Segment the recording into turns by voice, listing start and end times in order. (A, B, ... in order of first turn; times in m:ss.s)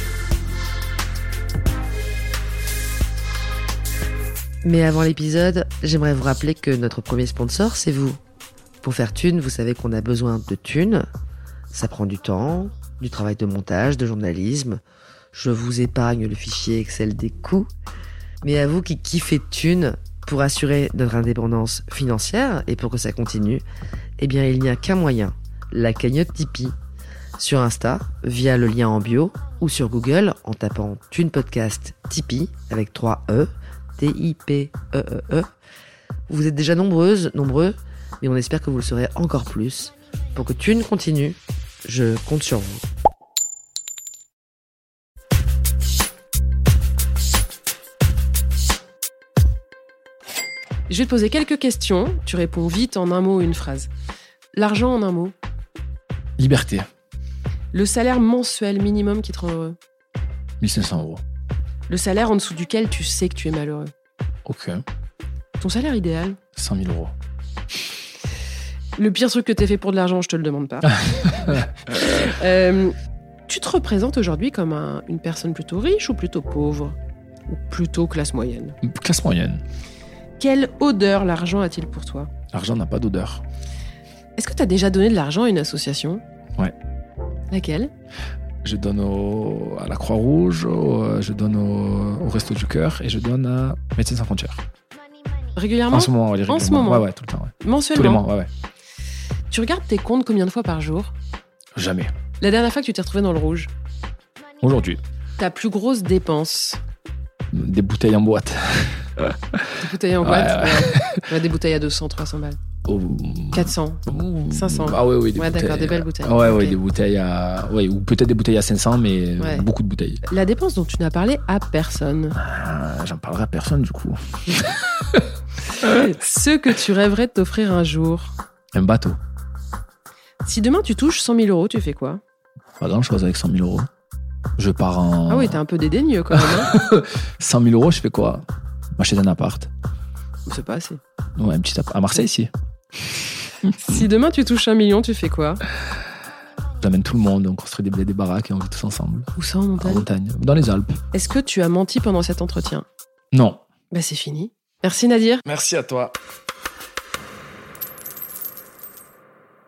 0:04.6-0:08.2 A
0:08.8-0:11.0 A
0:11.7-0:14.8 A
0:15.3-0:17.7 A
0:18.4-0:23.6 A
0:24.2-0:26.8 A
0:27.4-0:35.5 A
0:36.3-0:42.8 A
0:50.9-0:53.9 B
0:54.5-0:55.3 B
0:56.4-0:56.9 C
0:57.7-0:59.8 B
1:00.6-1:01.2 C
1:01.9-1:03.9 B
1:04.4-1:04.8 C
1:05.6-1:06.4 B
1:06.6-1:07.1 C
1:09.0-1:12.9 B
1:13.5-1:17.0 B
1:17.5-1:18.7 B
1:18.8-1:19.6 C
1:20.4-1:22.3 B
1:22.5-1:23.4 C
1:24.4-1:26.2 B
1:27.5-1:27.9 B
1:28.6-1:34.6 C
1:35.5-1:37.0 B
1:35.9-1:38.5 C
1:37.6-1:38.2 B
1:39.5-1:41.1 B
1:41.8-1:42.1 C
1:42.4-1:43.7 B
1:44.6-1:45.0 C
1:45.4-1:46.8 B
1:47.5-1:51.3 C
1:49.8-1:52.6 B
1:52.9-2:00.2 C
1:53.5-1:56.8 B
1:59.4-1:59.7 B
2:00.3-2:02.4 B
2:02.4-2:05.3 C
2:05.8-2:06.1 C
2:05.8-2:08.4 B
2:08.7-2:09.2 C
2:10.4-2:12.2 B
2:12.8-2:13.9 C
2:14.6-2:15.6 C
2:15.3-2:16.7 B
2:16.3-2:18.4 C
2:19.0-2:19.7 C
2:20.4-2:21.0 B
2:21.4-2:22.5 C
2:23.8-2:25.6 B
2:26.8-2:31.0 C
2:29.4-2:30.1 B
2:31.1-2:32.8 B
2:33.3-2:33.6 C
2:33.9-2:35.4 B
2:35.5-2:36.2 C